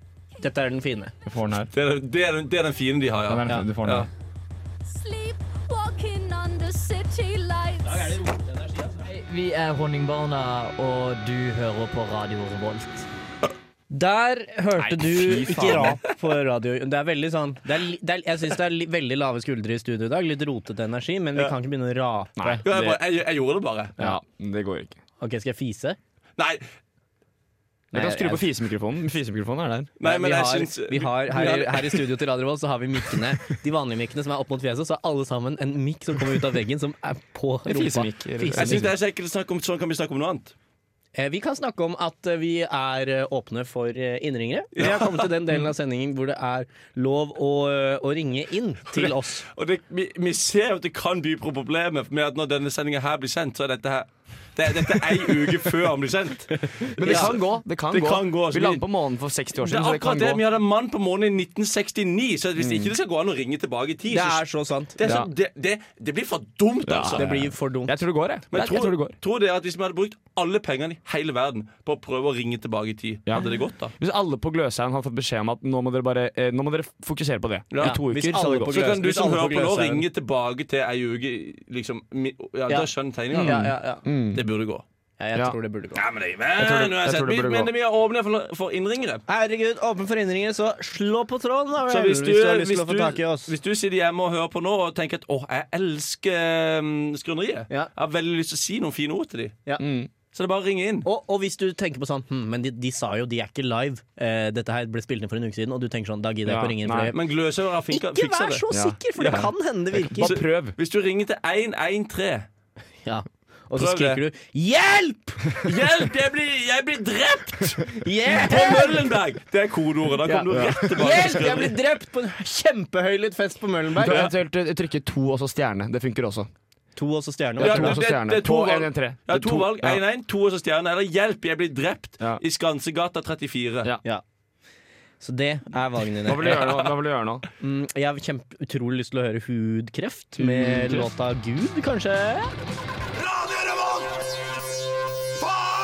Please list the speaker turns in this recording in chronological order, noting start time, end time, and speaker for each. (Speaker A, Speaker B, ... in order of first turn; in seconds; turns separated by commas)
Speaker A: 0.4-1.1, Speaker B: 1.2-1.7, Speaker C: 1.7-4.1, Speaker B: 3.3-4.1, Speaker D: 4.8-8.2, Speaker A: 8.1-8.9, Speaker E: 9.0-13.1, Speaker A: 13.9-22.8, Speaker B: 14.8-16.0, Speaker B: 22.4-23.0, Speaker C: 22.6-24.0, Speaker B: 24.0-25.0, Speaker A: 25.2-26.0, Speaker C: 26.4-26.6, Speaker A: 27.9-28.5, Speaker B: 27.9-30.0, Speaker C: 30.0-32.1, Speaker A: 30.0-38.9, Speaker B: 37.7-39.0, Speaker C: 38.5-40.5, Speaker A: 41.1-49.4, Speaker C: 44.8-45.3, Speaker C: 48.9-58.9, Speaker B: 57.0-60.4, Speaker A: 57.0-57.3, Speaker C: 59.5-67.3, Speaker B: 62.6-62.9, Speaker A: 64.1-65.0, Speaker B: 65.0-65.3, Speaker B: 66.8-69.2, Speaker A: 67.2-68.0, Speaker C: 68.5-73.9, Speaker B: 73.3-79.0, Speaker C: 77.7-78.0, Speaker A: 77.8-80.0, Speaker C: 78.7-83.8, Speaker A: 82.7-84.0, Speaker B: 83.3-84.4, Speaker C: 84.3-84.8, Speaker A: 85.2-86.0, Speaker C: 86.0-89.2, Speaker B: 86.6-87.7, Speaker A: 89.3-93.5, Speaker C: 91.9-99.6, Speaker B: 99.8-100.1, Speaker C: 100.3-101.1, Speaker A: 101.0-107.2, Speaker B: 106.5-107.1, Speaker C: 107.1-109.5, Speaker A: 107.9-110.4, Speaker B: 108.7-110.8, Speaker C: 110.2-112.5, Speaker A: 113.0-115.7, Speaker C: 113.8-114.2, Speaker C: 115.6-121.8, Speaker A: 117.8-119.1, Speaker A: 120.3-124.3, Speaker B: 120.5-121.4, Speaker B: 124.0-126.5, Speaker C: 124.1-124.3, Speaker A: 127.0-128.0, Speaker B: 127.6-130.0, Speaker C: 127.6-133.9, Speaker A: 135.2-136.8, Speaker B: 136.2-137.4, Speaker C: 136.4-136.9, Speaker A: 137.6-142.5, Speaker B: 140.4-141.1, Speaker C: 143.5-144.0